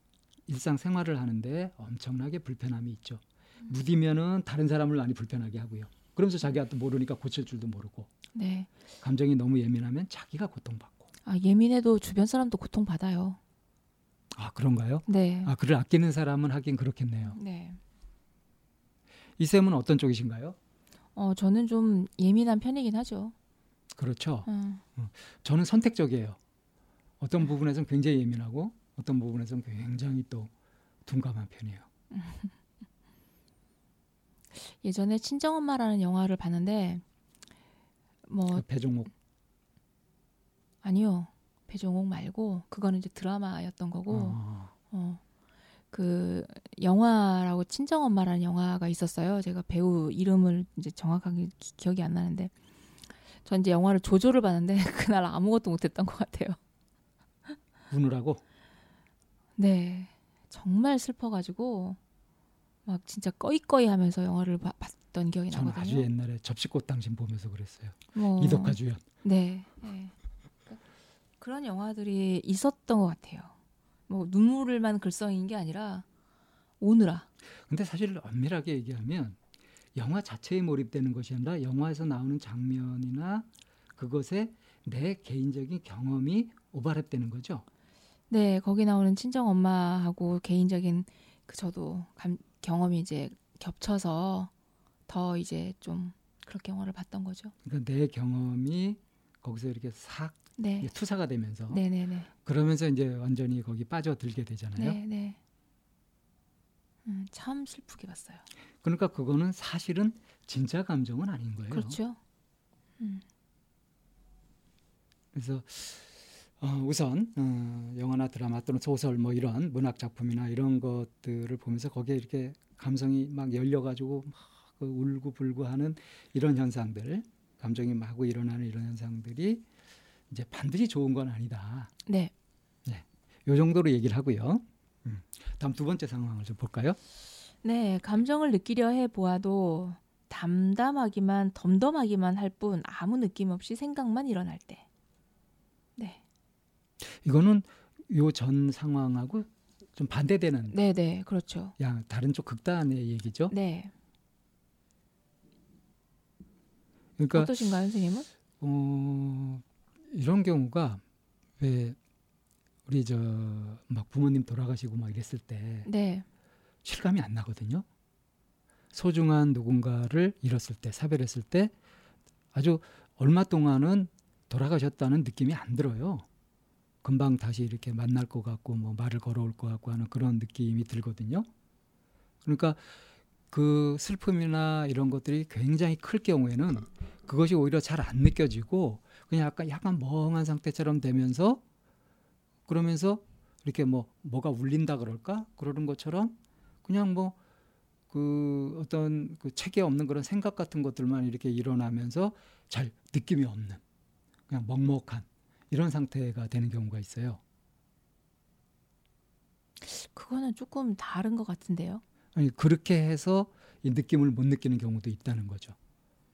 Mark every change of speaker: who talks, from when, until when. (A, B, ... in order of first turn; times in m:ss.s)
0:00.5-0:08.1 A
0:08.3-0:08.7 B
0:09.0-0:11.1 A
0:11.2-0:13.4 B
0:14.3-0:17.4 A
0:15.1-0:15.5 B
0:17.3-0:17.8 B
0:19.4-0:20.6 A
0:21.2-0:23.3 B
0:24.0-0:26.4 A
0:24.5-0:24.8 B
0:27.2-0:30.5 A
0:31.1-0:31.9 A
0:32.1-0:32.5 B
0:34.6-0:37.0 B
0:38.3-0:38.6 B
0:38.5-0:39.1 A
0:40.8-0:45.2 B
0:44.1-0:44.7 A
0:45.9-0:52.5 B
0:53.4-0:56.6 B
0:57.9-0:58.4 A
0:59.6-1:02.0 B
1:02.9-1:06.1 B
1:05.5-1:09.0 A
1:08.2-1:10.1 B
1:11.4-1:13.5 B
1:14.1-1:16.0 B
1:16.8-1:17.3 B
1:17.7-1:19.4 A
1:20.0-1:27.6 A
1:28.3-1:34.5 B
1:35.1-1:37.5 B
1:37.6-1:41.8 A
1:40.6-1:40.9 B
1:41.7-1:42.3 B
1:42.4-1:45.0 A
1:44.8-1:45.4 B
1:47.0-1:48.4 B
1:48.8-1:52.0 A
1:51.7-1:52.2 B
1:53.0-1:53.2 B
1:55.3-2:09.6 A
2:10.3-2:11.9 A
2:12.1-2:12.3 B
2:12.8-2:17.0 A
2:17.6-2:24.8 B
2:27.0-2:30.8 A
2:30.7-2:31.8 B
2:31.8-2:33.5 A
2:33.5-2:33.9 B
2:37.2-2:37.5 A
2:37.3-2:38.3 B
2:38.6-2:41.0 A
2:41.6-2:42.0 A
2:42.9-2:45.9 A
2:45.9-2:46.2 B
2:46.8-2:47.8 A
2:48.9-2:51.7 A
2:52.5-2:56.3 A
2:57.0-3:01.5 A
3:02.4-3:02.8 A
3:03.5-3:11.6 A
3:12.7-3:17.4 A
3:18.1-3:23.8 A
3:24.5-3:27.4 A
3:29.8-3:32.0 B
3:32.4-3:35.8 A